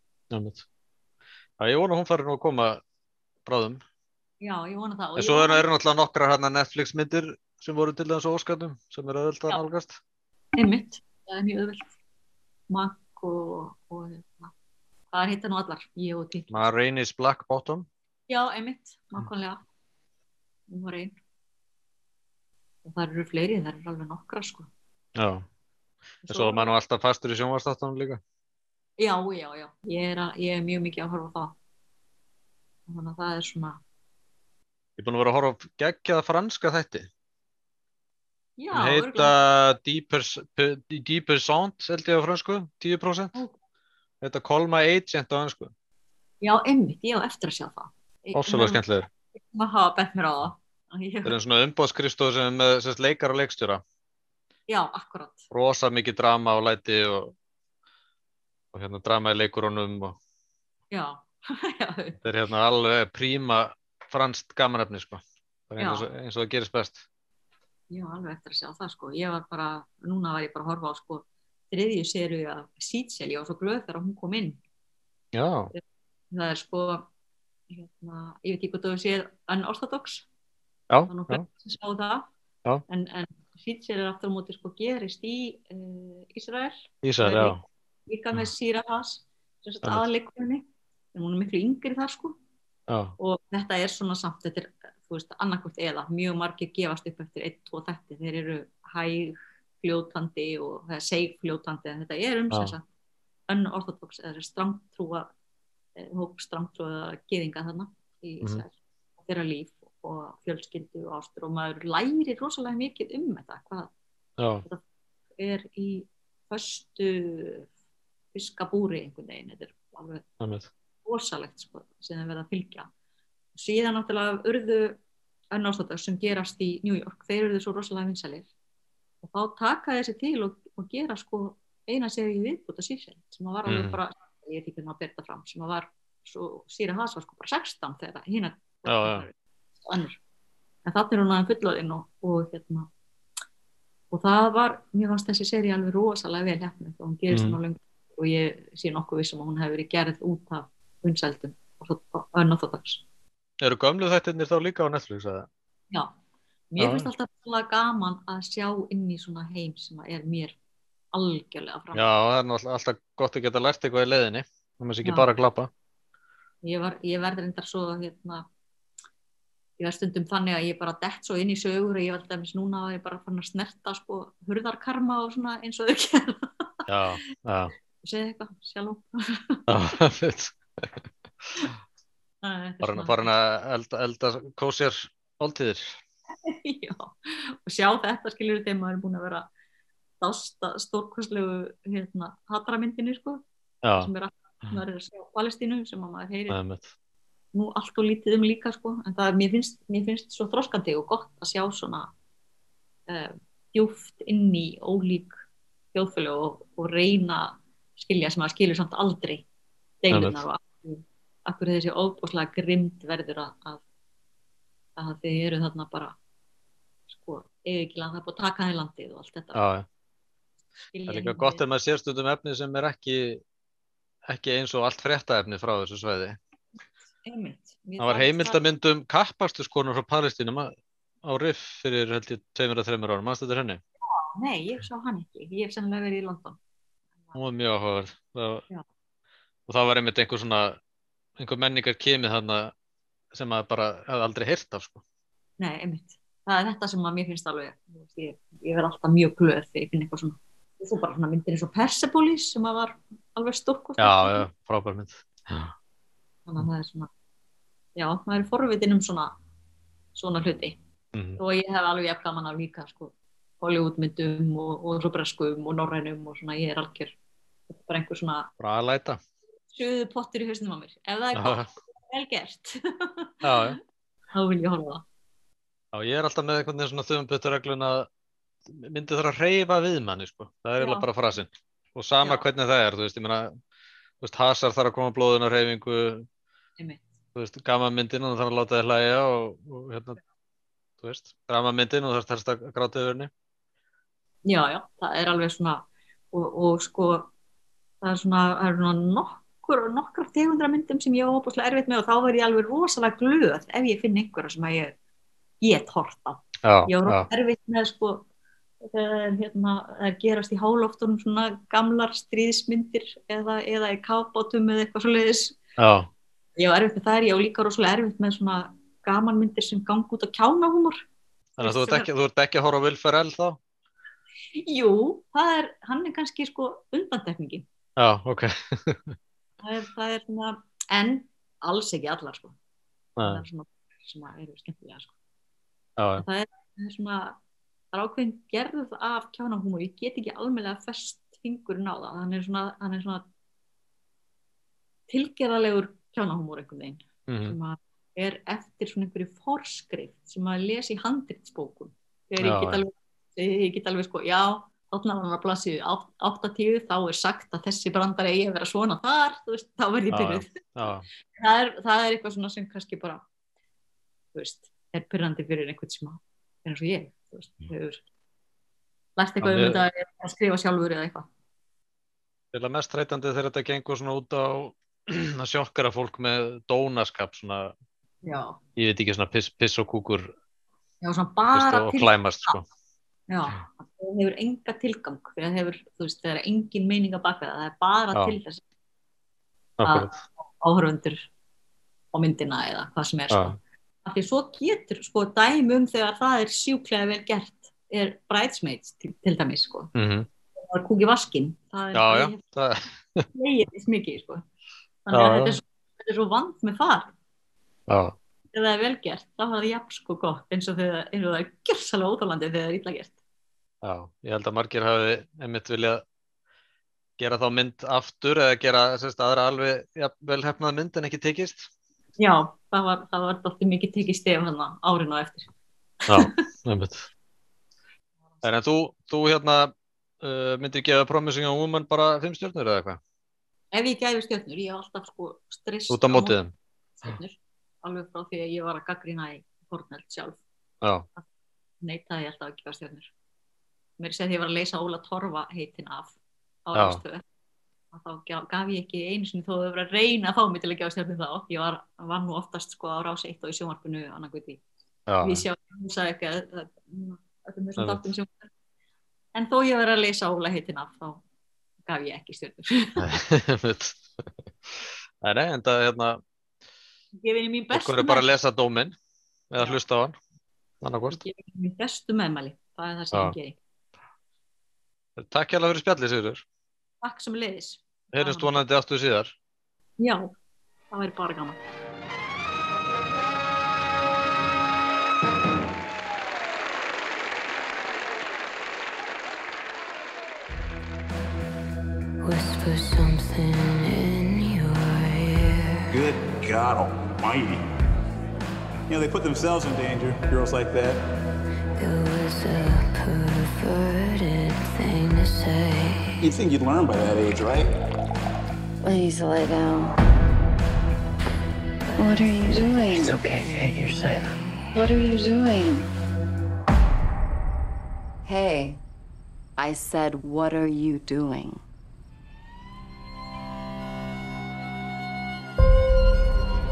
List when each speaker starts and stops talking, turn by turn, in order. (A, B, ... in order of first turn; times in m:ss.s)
0:00.3-0:00.6 A
0:01.6-0:02.8 A
0:03.4-0:03.8 A
0:04.4-0:05.6 B
0:05.2-0:10.0 A
0:10.6-0:11.9 B
0:12.7-0:14.5 B
0:15.1-0:16.7 B
0:16.5-0:17.9 A
0:18.3-0:19.6 B
0:20.7-0:21.1 B
0:22.8-0:24.7 B
0:25.2-0:25.4 A
0:26.2-0:26.7 B
0:26.3-0:28.2 A
0:29.0-0:31.6 B
0:32.9-0:33.8 B
0:35.0-0:37.1 A
0:38.6-0:39.3 B
0:38.7-0:43.4 A
0:44.2-0:45.7 A
0:46.4-0:48.8 B
0:48.3-0:49.1 A
0:49.4-0:51.4 B
0:51.2-0:53.8 A
0:54.7-0:55.5 B
0:55.5-0:57.3 A
0:58.7-1:00.2 A
1:00.9-1:02.2 B
1:02.2-1:07.0 A
1:05.8-1:06.1 B
1:07.9-1:14.6 B
1:15.3-1:15.7 A
1:15.7-1:17.1 B
1:17.7-1:20.3 B
1:20.9-1:21.4 A
1:21.1-1:22.3 B
1:22.9-1:32.4 B
1:27.0-1:27.6 A
1:32.9-1:33.1 A
1:33.2-1:42.8 B
1:43.5-1:45.3 B
1:46.0-1:53.9 B
1:54.4-1:54.6 A
1:55.4-1:57.7 B
1:58.3-2:00.2 B
2:00.4-2:00.7 A
2:01.0-2:02.9 B
2:03.6-2:05.0 B
2:05.5-2:08.5 B
2:09.2-2:20.2 B
2:13.6-2:14.0 A
2:18.9-2:19.3 A
2:20.8-2:22.9 B
2:24.1-2:33.0 B
2:27.3-2:27.6 A
2:33.6-2:35.5 A
2:36.7-2:40.6 B
2:36.8-2:37.1 A
2:41.1-2:42.1 B
2:41.9-2:45.7 A
2:45.0-2:45.3 B
2:46.6-2:48.4 B
2:49.8-2:56.7 B
2:56.9-2:57.7 A
2:58.0-2:59.6 B
2:59.7-3:01.0 A
3:02.4-3:03.3 B
3:02.8-3:06.0 A
3:06.4-3:09.5 B
3:10.2-3:13.4 B
3:13.8-3:14.1 A
3:14.0-3:16.6 B
3:16.5-3:16.9 A
3:17.5-3:22.1 B
3:23.1-3:29.4 B
3:30.0-3:33.8 B
3:30.1-3:30.4 A
3:35.0-3:36.2 B
3:37.1-3:39.6 B
3:39.5-3:39.9 A
3:40.9-3:41.6 B
3:41.1-3:43.4 A
3:44.3-3:46.4 A
3:47.2-3:48.6 B
3:48.0-3:50.7 A
3:51.2-3:53.8 A
3:54.1-3:56.6 B
3:57.3-3:58.6 A
3:59.7-4:00.8 A
4:01.4-4:02.7 A
4:03.3-4:05.0 A
4:05.6-4:14.4 B
4:14.0-4:15.7 A
4:16.5-4:17.1 B
4:18.0-4:19.4 B
4:20.1-4:20.8 B
4:21.1-4:21.4 A
4:21.4-4:27.1 B
4:27.7-4:28.5 B
4:28.6-4:29.2 A
4:29.7-4:33.8 B
4:31.3-4:31.7 A
4:33.4-4:33.8 A
4:34.3-4:35.0 B
4:35.9-4:38.1 A
4:38.7-4:43.5 A
4:40.8-4:41.1 B
4:42.2-4:42.5 B
4:44.2-4:46.3 A
4:46.8-4:47.0 B
4:47.3-4:50.2 A
4:51.0-4:53.3 A
4:54.4-4:57.3 B
4:58.0-5:04.9 B
5:05.6-5:08.2 B
5:06.6-5:07.3 A
5:08.8-5:15.6 B
5:15.8-5:16.1 A
5:16.6-5:21.0 B
5:21.6-5:23.6 A
5:21.6-5:22.1 B
5:24.6-5:27.6 B
5:28.0-5:29.2 A
5:29.6-5:32.6 B
5:33.2-5:33.4 A
5:33.2-5:35.1 B
5:36.0-5:36.3 A
5:36.2-5:37.4 B
5:37.9-5:43.2 B
5:45.1-6:03.2 B
5:47.3-5:47.6 A
5:52.4-5:52.8 A
6:00.1-6:01.1 A
6:04.3-6:08.0 B
6:09.2-6:11.3 B
6:09.4-6:09.8 A
6:12.5-6:17.7 A
6:18.2-6:18.6 B
6:18.8-6:20.3 A
6:21.0-6:22.6 B
6:21.5-6:22.6 A
6:23.3-6:28.6 B
6:29.8-6:30.2 A
6:29.8-6:31.3 B
6:32.1-6:39.9 B
6:33.3-6:33.6 A
6:39.9-6:40.3 A
6:40.7-6:42.4 B
6:41.9-6:43.3 A
6:43.3-6:44.4 B
6:45.0-6:47.1 B
6:45.1-6:45.6 A
6:47.9-6:48.2 A
6:48.5-6:53.2 B
6:53.8-6:56.0 A
6:57.2-7:01.7 A
7:02.2-7:05.5 B
7:06.1-7:06.3 B
7:06.1-7:07.0 A
7:08.4-7:13.0 A
7:13.7-7:20.4 B
7:15.9-7:16.5 A
7:21.8-7:23.1 B
7:24.0-7:27.2 B
7:26.7-7:27.0 A
7:27.9-7:34.6 B
7:35.1-7:35.4 A
7:35.2-7:38.5 B
7:37.8-7:38.1 A
7:39.3-7:41.2 B
7:41.9-7:43.0 B
7:43.0-7:44.0 A
7:44.8-7:46.2 A
7:47.2-7:48.3 B
7:47.7-7:49.0 A
7:49.5-7:50.2 A
7:50.8-7:51.2 A
7:51.1-7:53.6 B
7:55.2-7:56.4 A
7:57.0-7:58.6 B
7:58.1-7:59.3 A
8:00.0-8:00.3 B
8:00.9-8:01.6 B
8:12.2-8:15.9 C
8:15.9-8:17.6 D
8:18.9-8:21.0 D
8:21.8-8:26.2 C
8:26.2-8:27.7 D
8:28.8-8:30.0 E
8:32.0-8:35.9 E
8:38.2-8:38.8 E
8:39.6-8:41.6 E